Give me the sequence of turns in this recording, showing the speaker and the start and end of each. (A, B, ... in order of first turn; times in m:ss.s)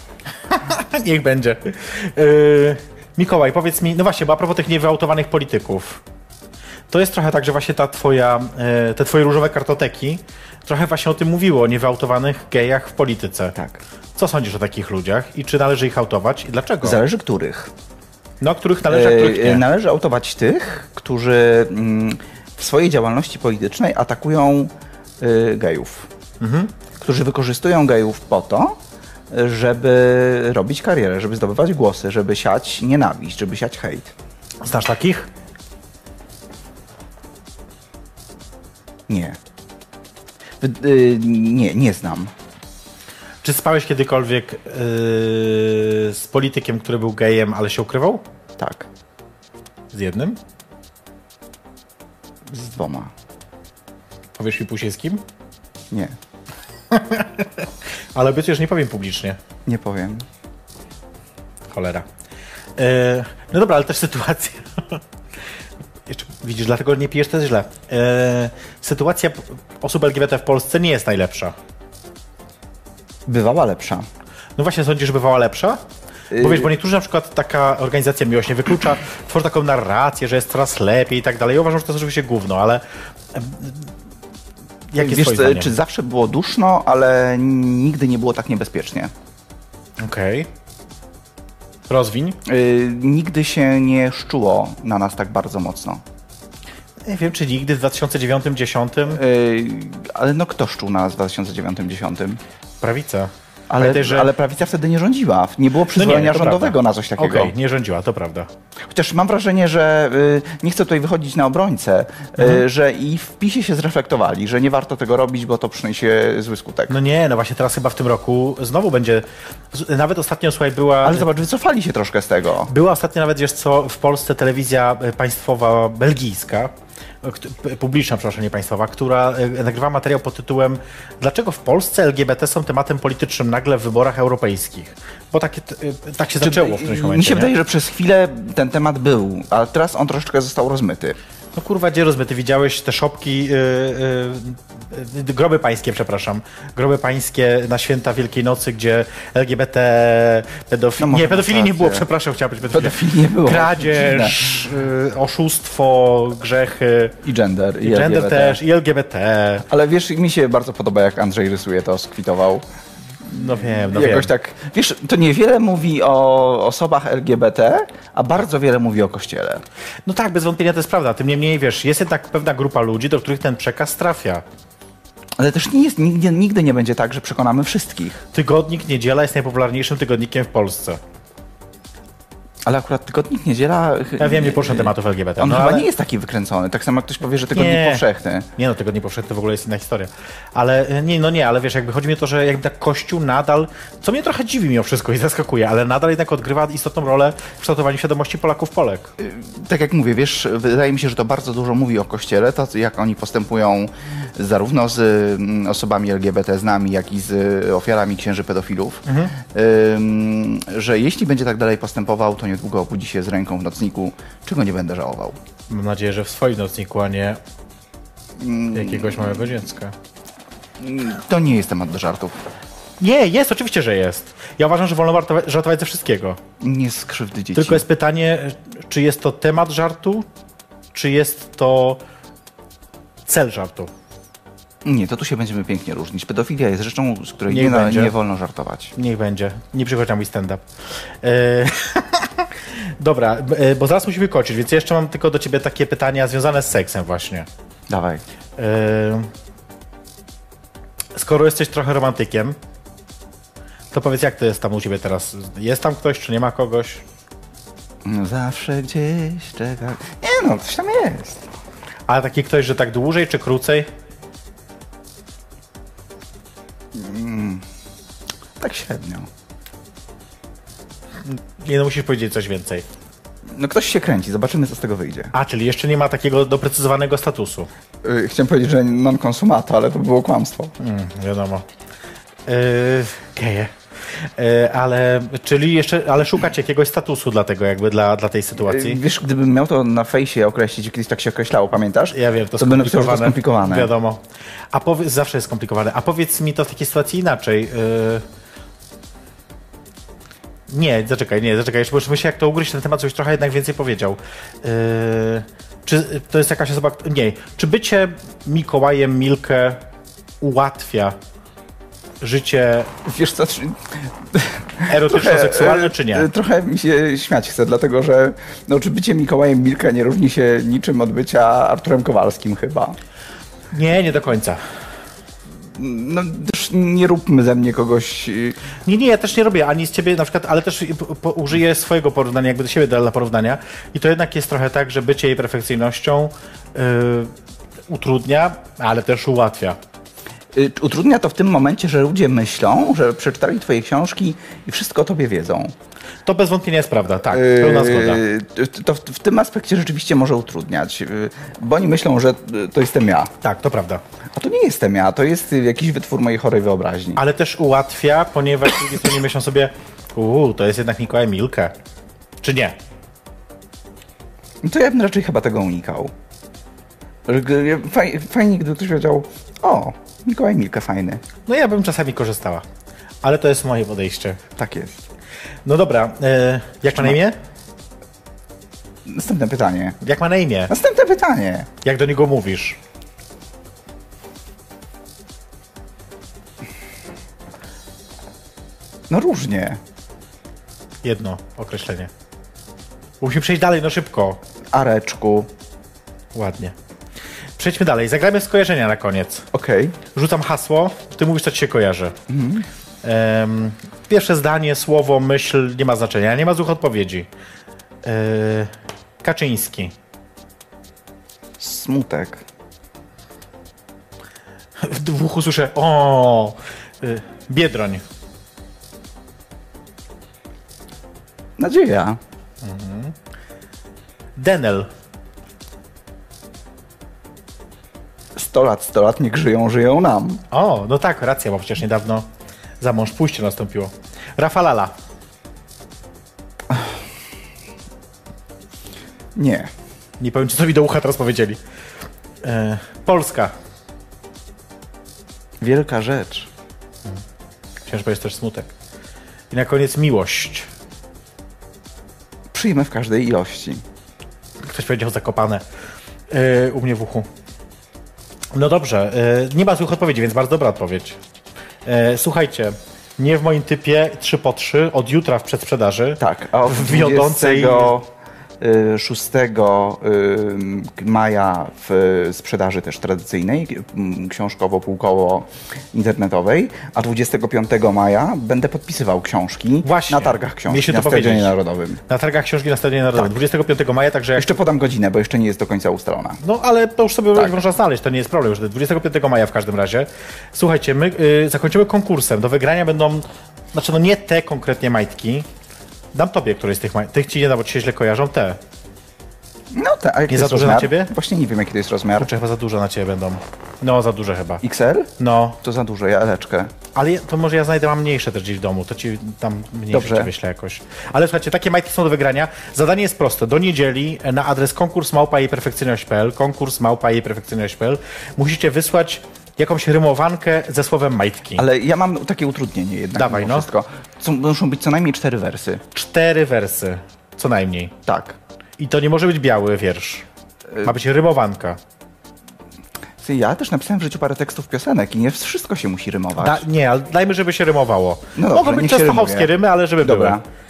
0:00.5-0:06.0 A
0:06.9-0:13.6 A
0:14.2-0:17.0 A
0:16.8-0:17.7 B
0:18.4-0:19.6 A
0:18.9-0:26.1 B
0:26.4-0:26.7 A
0:27.0-0:28.8 B
0:29.3-0:34.1 B
0:34.6-0:35.3 A
0:39.1-0:39.4 B
0:40.6-0:42.3 B
0:43.4-0:48.2 A
0:48.6-0:48.9 B
0:49.9-0:50.4 A
0:52.5-0:53.1 B
0:54.4-0:55.2 A
0:56.9-0:59.4 A
0:59.6-1:00.2 B
1:01.7-1:02.0 A
1:02.8-1:05.0 A
1:06.1-1:11.5 A
1:13.3-1:14.0 B
1:14.6-1:15.8 A
1:16.3-1:16.7 B
1:16.4-1:23.9 A
1:24.9-1:25.7 A
1:25.0-1:29.1 B
1:30.0-1:30.5 A
1:31.9-1:32.4 A
1:32.4-1:36.0 B
1:37.0-1:39.2 A
1:39.1-1:42.4 B
1:42.8-1:44.3 A
1:43.7-1:47.5 B
1:45.9-1:48.5 A
1:48.8-1:57.0 B
1:52.4-1:52.6 A
1:56.9-2:01.3 A
2:01.0-2:02.7 B
2:02.7-2:17.5 A
2:16.4-2:21.2 B
2:21.5-2:37.2 A
2:31.0-2:32.1 B
2:32.7-2:34.5 B
2:37.2-2:38.6 B
2:37.8-2:39.6 A
2:39.7-2:42.6 B
2:43.2-2:49.6 B
2:43.3-2:44.3 A
2:50.0-2:54.4 A
2:55.4-2:58.2 B
2:58.3-3:01.0 A
3:02.6-3:08.5 B
3:04.2-3:05.9 A
3:07.5-3:08.0 A
3:08.6-3:19.1 A
3:19.2-3:35.4 B
3:29.0-3:29.3 A
3:35.7-3:37.4 A
3:38.4-3:39.5 B
3:38.7-3:39.9 A
3:40.8-3:42.3 B
3:43.0-3:46.4 A
3:46.6-3:47.8 B
3:47.5-3:50.3 A
3:50.9-3:52.0 A
3:53.3-3:53.9 A
3:54.8-3:58.9 B
3:57.5-3:58.1 A
3:59.0-4:00.6 A
4:01.2-4:07.5 A
4:07.9-4:08.2 B
4:08.6-4:09.3 A
4:11.1-4:12.6 A
4:13.9-4:17.0 A
4:18.0-4:21.4 B
4:22.1-4:23.9 A
4:26.9-4:27.6 B
4:28.6-4:29.3 B
4:31.2-4:32.8 A
4:33.5-4:35.3 B
4:35.3-4:37.7 A
4:38.0-4:40.7 B
4:40.8-4:41.6 A
4:42.5-4:49.0 A
4:48.6-4:53.9 B
4:52.1-4:58.2 A
5:00.7-5:09.8 A
5:10.4-5:11.2 A
5:12.2-5:12.9 A
5:13.0-5:23.0 B
5:14.9-5:16.3 A
5:23.7-5:24.6 A
5:25.7-5:28.6 B
5:28.8-5:37.3 A
5:37.9-5:39.8 A
5:40.5-5:45.7 B
5:46.2-5:48.2 A
5:47.3-5:53.3 B
5:53.4-5:54.0 A
5:54.4-5:57.2 B
5:57.2-6:01.7 A
6:02.4-6:02.8 A
6:04.6-6:06.1 B
6:07.3-6:11.2 B
6:11.4-6:12.6 A
6:13.2-6:14.4 A
6:14.6-6:15.1 B
6:15.6-6:17.4 A
6:19.0-6:20.0 B
6:20.0-6:20.7 A
6:20.7-6:21.7 B
6:21.8-6:22.8 A
6:29.1-6:29.8 B
6:31.0-6:32.1 A
6:33.2-6:34.4 A
6:34.7-6:35.5 B
6:36.3-6:36.7 A
6:37.6-6:39.5 A
6:39.5-6:40.0 B
6:40.1-6:42.2 A
6:42.3-6:42.6 B
6:43.0-6:47.3 A
6:48.0-6:49.9 A
6:51.6-6:52.4 B
6:54.8-6:58.0 A
7:01.6-7:02.2 B
7:02.6-7:03.1 A
7:04.4-7:04.9 A
7:08.3-7:10.4 B
7:10.5-7:12.3 A
7:12.8-7:14.9 A
7:16.7-7:17.0 B
7:19.4-7:19.7 B
7:20.2-7:21.6 A
7:22.4-7:23.5 A
7:25.6-7:26.5 B
7:27.8-7:28.7 A
7:29.5-7:30.7 A
7:32.5-7:33.8 B
7:34.6-7:35.6 A
7:36.3-7:37.3 A
7:38.5-7:41.2 A
7:41.8-7:47.9 A
7:46.2-7:48.1 B
7:48.6-8:02.0 B
7:59.8-8:01.6 A
8:02.1-8:04.5 A
8:04.4-8:06.4 B
8:06.4-8:15.5 A
8:16.1-8:18.6 A
8:19.7-8:22.3 B
8:20.3-8:21.1 A
8:22.2-8:24.6 A
8:24.6-8:26.7 B
8:25.2-8:25.6 A
8:26.9-8:41.6 A
8:29.9-8:30.3 B
8:41.6-8:45.8 B
8:43.1-8:43.7 A
8:45.9-8:47.9 A
8:48.0-8:48.4 B
8:48.8-8:50.2 A
8:50.8-8:51.8 A
8:53.2-8:56.6 B
8:56.4-9:00.4 A
8:58.4-9:00.4 B